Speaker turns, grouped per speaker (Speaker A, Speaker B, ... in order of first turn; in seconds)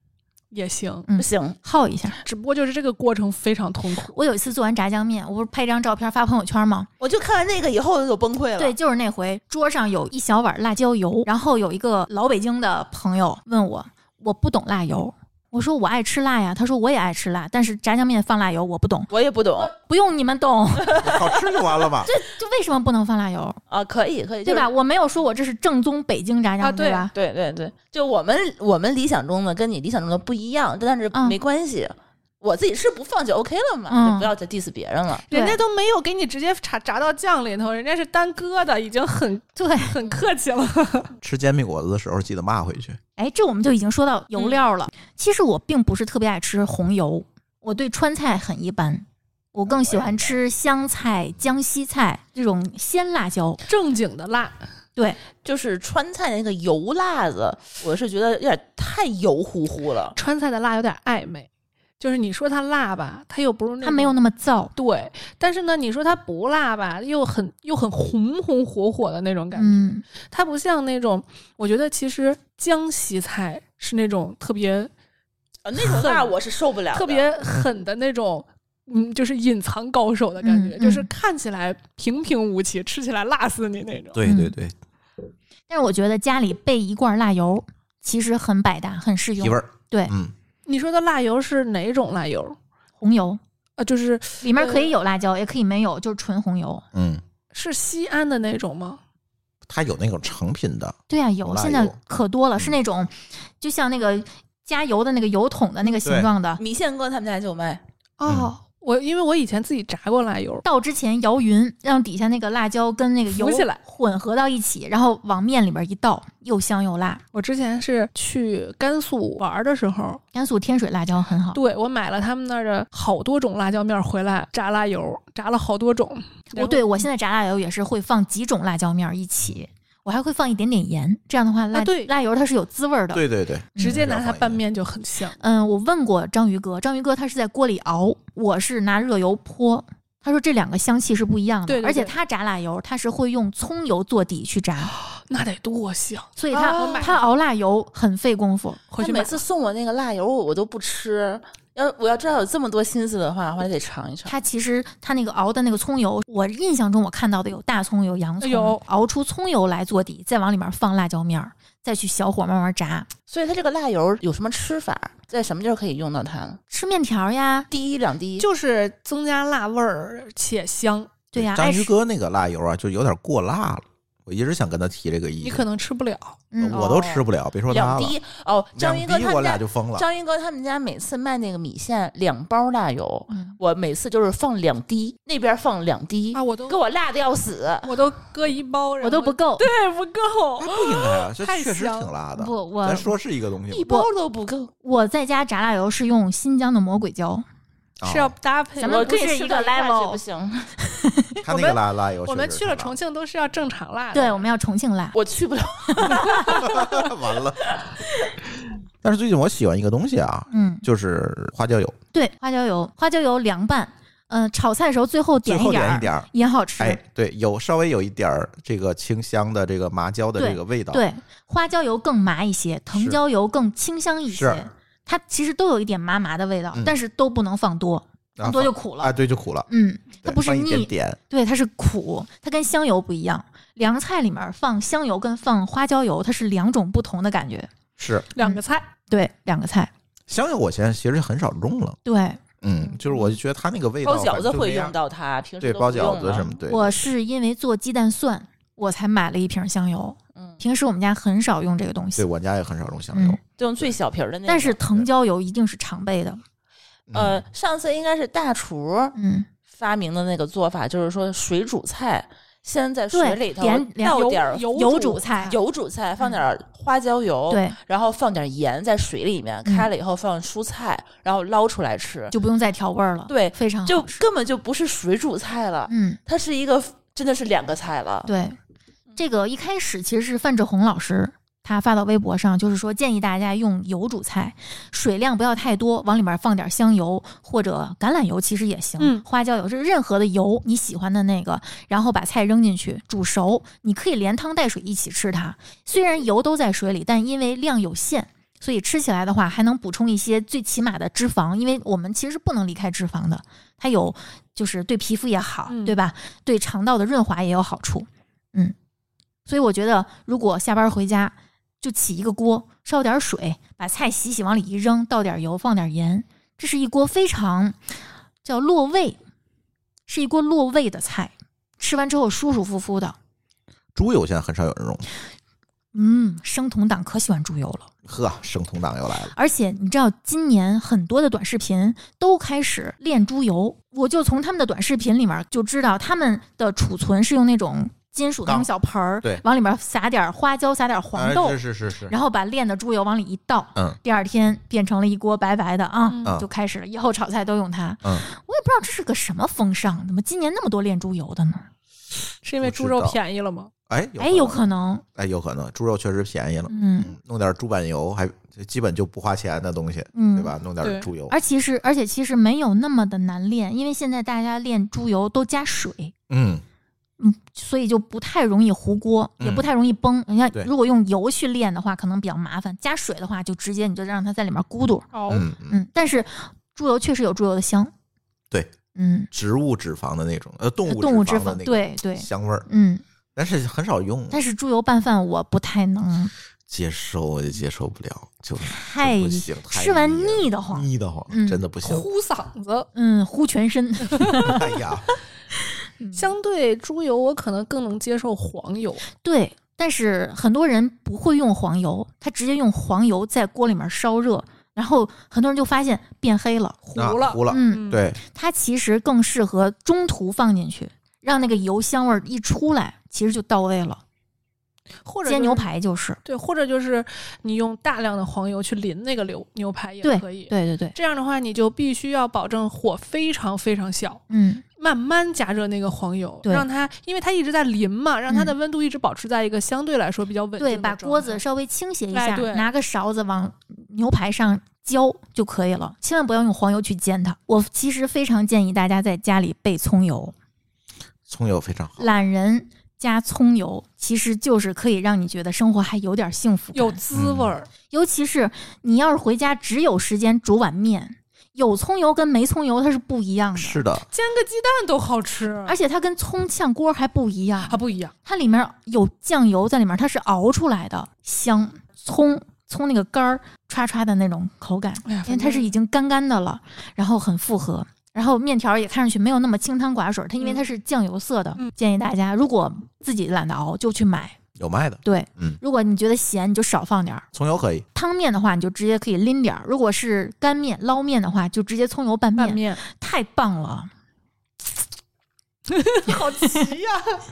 Speaker A: 0.5-1.1, 2.2-4.2, 26.6-27.1, 35.3-41.1, 53.7-54.6, 60.1-61.5, 62.0-64.2, 64.8-74.9, 75.8-76.3, 76.9-84.2, 90.7-92.6, 93.8-94.9, 97.5-99.0, 108.2-110.6, 113.3-113.8, 117.3-120.2, 121.5-126.9, 131.7-132.1, 133.8-135.4, 141.7-142.1, 144.9-147.2, 148.9-149.4, 158.4-158.8, 168.4-171.2, 175.4-176.4, 186.3-186.8, 187.8-192.1, 198.0-199.3, 201.5-204.4, 238.3-238.9, 264.1-265.2, 289.0-289.3, 305.7-306.0, 346.1-346.4, 352.4-353.7, 360.8-361.1, 375.1-375.5, 391.8-392.9, 396.2-399.0, 406.9-408.0, 415.1-415.7, 416.2-424.2, 424.8-431.4, 432.1-432.7, 446.7-447.7, 454.1-455.8, 457.7-458.1, 465.1-465.7, 482.4-482.8, 485.7-487.2
Speaker B: 1.1-2.2, 4.1-6.9, 8.6-21.1, 22.0-23.6, 24.4-27.1, 33.9-34.3, 35.3-35.6, 39.6-40.0, 43.2-53.6, 63.8-64.7, 69.5-70.0, 80.4-81.1, 84.2-84.5, 85.7-90.1, 93.0-93.4, 94.4-96.8, 101.1-106.6, 110.6-117.2, 120.3-121.6, 126.5-133.2, 133.8-134.0, 135.4-144.9, 146.4-149.0, 154.3-163.1, 166.7-167.7, 171.3-171.9, 176.5-176.9, 183.3-183.6, 189.0-189.7, 192.4-193.1, 194.8-197.4, 198.8-200.2, 200.8-201.4, 204.1-205.2, 205.9-206.6, 210.5-210.8, 212.1-217.0, 220.4-229.2, 229.7-237.7, 238.4-239.9, 242.1-242.4, 246.7-252.3, 253.1-253.4, 254.5-256.4, 259.2-259.5, 263.1-265.6, 267.5-267.8, 272.3-274.2, 275.9-276.2, 278.3-278.6, 279.2-308.7, 309.5-317.8, 318.4-319.2, 320.1-323.2, 325.9-327.9, 329.3-351.6, 354.2-355.0, 356.7-357.1, 360.1-360.5, 361.3-366.1, 367.2-375.1, 375.7-377.9, 378.9-379.3, 380.9-383.0, 384.3-386.3, 388.6-391.6, 392.9-394.7, 396.0-396.4, 399.2-406.8, 407.5-414.0, 415.3-416.2, 420.0-420.9, 424.3-424.6, 428.3-428.5, 430.6-440.3, 442.0-447.0, 447.9-453.8, 455.7-474.4, 475.0-477.3, 477.9-483.9
Speaker C: 1.2-1.6, 7.0-8.8, 19.1-19.7, 20.9-21.3, 23.7-24.7, 27.1-35.3, 55.4-60.2, 75.7-77.3, 106.6-107.8, 146.5-147.1, 149.0-154.3, 163.3-166.6, 167.7-168.5, 176.7-188.1, 193.7-194.7, 198.8-200.7, 205.1-206.7, 244.0-246.5, 253.6-254.8, 257.1-259.2, 259.7-272.3, 273.3-278.3
Speaker D: 21.0-22.1, 41.2-43.0, 84.2-84.7, 89.4-90.3, 96.9-97.2, 99.7-102.0, 106.0-106.3, 108.3-108.5, 133.1-134.6, 171.3-175.7, 176.6-178.2, 178.8-180.1, 190.6-193.9, 198.0-198.3, 201.4-203.0, 206.6-207.7, 209.0-212.0, 215.4-216.3, 216.8-221.0, 222.9-223.2, 224.3-224.7, 228.4-229.7, 230.2-231.2, 238.0-238.3, 240.3-242.0, 242.6-245.0, 245.6-247.0, 252.2-253.9, 257.1-257.4, 323.9-325.1, 328.1-329.3, 341.1-342.2, 352.6-353.2, 353.9-361.4, 366.3-366.6, 369.4-369.7, 375.3-375.8, 379.3-382.7, 383.4-384.4, 386.7-392.1, 394.4-395.1, 406.9-408.2, 441.3-442.1, 447.1-447.5, 453.6-454.1, 474.6-475.6, 477.3-477.9